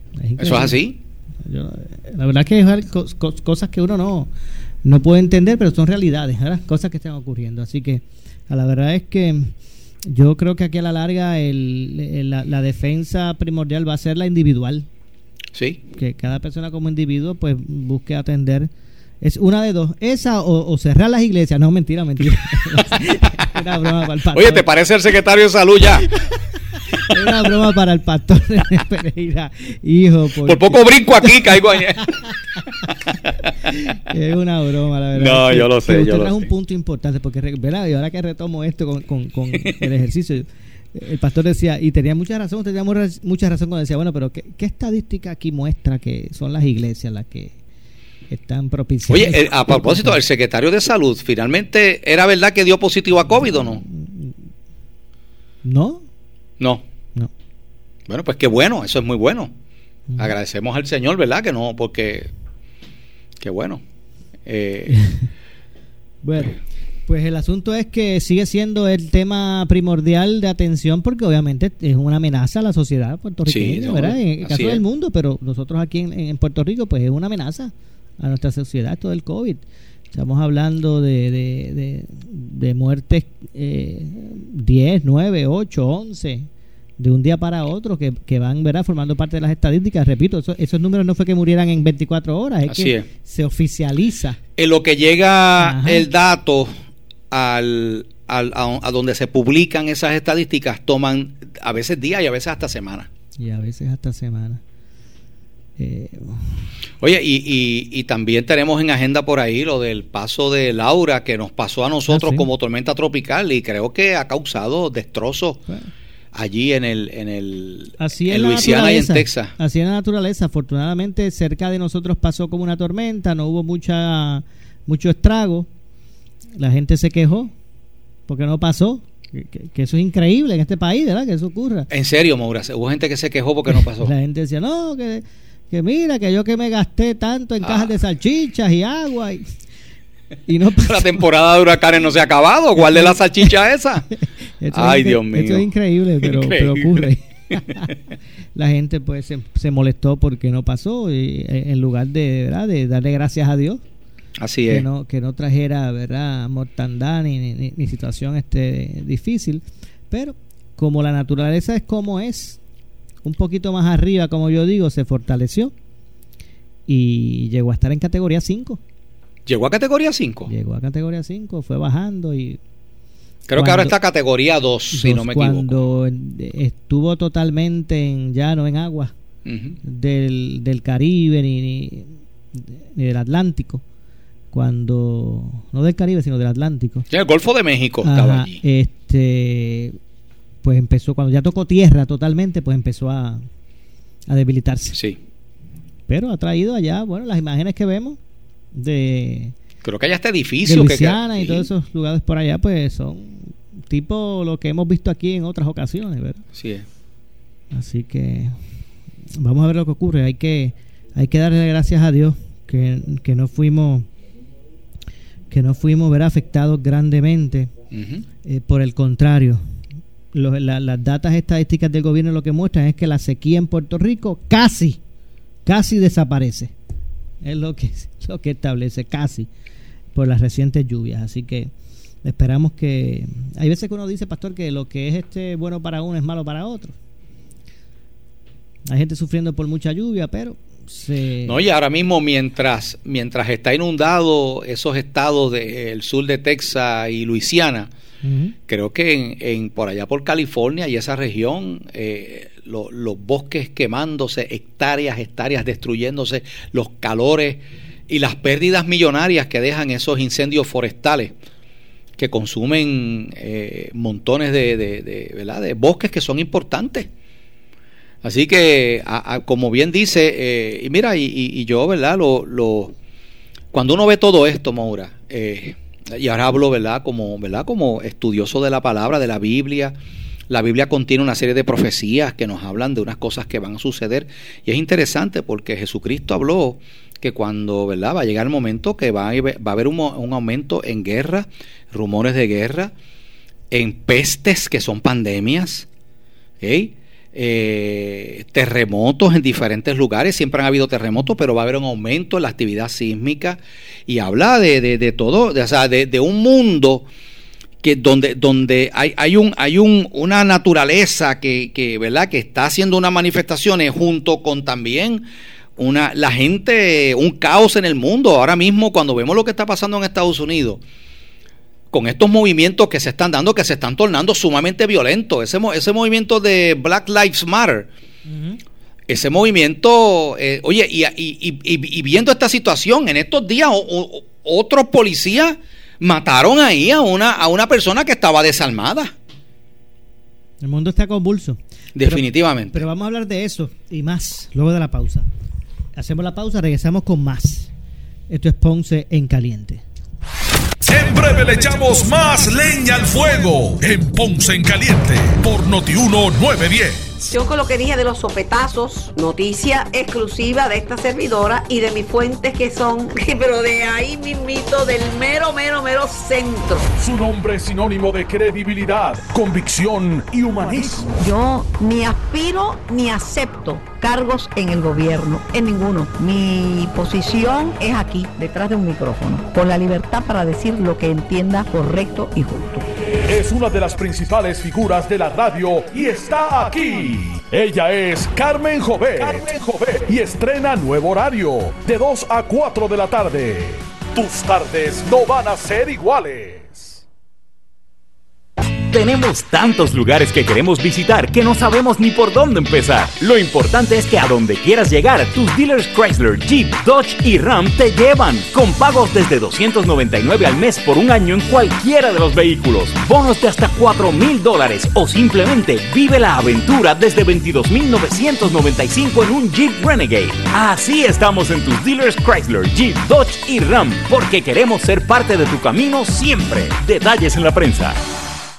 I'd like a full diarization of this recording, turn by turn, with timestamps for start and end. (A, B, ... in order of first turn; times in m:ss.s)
0:00.2-0:00.8 A
0:00.4-0:01.0 B
0:01.4-0:04.3 A
0:04.8-0:09.5 A
0:10.1-0:14.8 A
0:15.5-0:15.8 B
0:15.9-0:18.7 A
0:19.2-0:24.6 A
0:24.3-0:26.1 B
0:27.1-0:31.5 A
0:30.4-0:32.3 B
0:34.0-0:47.5 A
0:35.2-0:36.5 B
0:48.3-0:50.2 A
0:49.1-0:53.8 B
0:53.8-0:54.4 A
0:55.6-0:56.0 A
0:58.1-0:59.5 B
1:00.2-1:02.3 B
1:03.4-1:03.8 B
1:04.4-1:05.1 B
1:06.2-1:06.6 A
1:07.1-1:26.5 A
1:13.5-1:14.8 B
1:27.0-1:34.4 A
1:32.7-1:33.0 B
1:34.6-1:36.7 B
1:35.6-1:36.0 A
1:37.3-1:43.1 B
1:43.4-1:44.6 A
1:45.8-1:46.6 A
1:47.0-1:55.6 B
1:52.1-1:52.4 A
1:56.3-1:59.5 B
1:58.0-2:05.7 A
2:06.6-2:07.5 A
2:08.3-2:11.9 A
2:11.9-2:14.1 B
2:13.7-2:19.5 A
2:17.6-2:17.9 B
2:20.5-2:21.2 A
2:20.8-2:24.1 B
2:22.8-2:23.2 A
2:24.6-2:27.9 A
2:24.7-2:25.7 B
2:26.2-2:27.1 B
2:28.6-2:33.8 A
2:34.4-2:34.8 B
2:34.7-2:42.6 A
2:43.2-2:45.7 A
2:46.9-2:48.8 A
2:49.5-2:50.5 B
2:50.5-2:52.6 A
2:53.5-2:55.8 B
2:53.6-2:53.9 A
2:54.9-2:59.1 A
2:59.4-2:59.8 B
2:59.8-3:03.8 A
3:04.5-3:07.0 A
3:07.1-3:08.6 B
3:08.0-3:10.0 A
3:10.6-3:13.4 A
3:14.3-3:15.0 A
3:14.9-3:15.2 B
3:16.1-3:18.2 A
3:18.7-3:19.5 A
3:19.8-3:21.7 B
3:20.6-3:26.4 A
3:26.5-3:26.8 B
3:27.7-3:28.6 A
3:29.4-3:34.1 A
3:35.5-3:37.7 A
3:37.9-3:38.2 B
3:38.4-3:39.6 A
3:40.3-3:45.0 A
3:45.6-3:46.7 A
3:47.4-3:49.5 A
3:50.1-3:51.7 A
3:52.2-3:56.9 A
3:58.9-4:01.6 A
4:01.4-4:07.9 B
4:08.2-4:08.5 A
4:08.7-4:21.3 B
4:22.2-4:27.1 B
4:28.2-4:32.9 B
4:33.7-4:39.9 B
4:40.5-4:52.9 B
4:53.7-4:55.9 B
4:56.6-5:07.0 B
5:07.8-5:15.2 B
5:15.8-5:20.8 B
5:21.9-5:27.9 B
5:28.3-5:28.6 A
5:29.1-5:39.1 B
5:40.6-5:45.2 A
5:42.0-5:42.8 B
5:46.0-5:47.7 A
5:48.3-5:49.8 A
5:50.8-5:57.3 C
5:57.3-6:06.9 D
6:07.0-6:11.1 C
6:11.1-6:22.9 D
6:23.2-6:37.0 C
6:38.8-7:08.0 E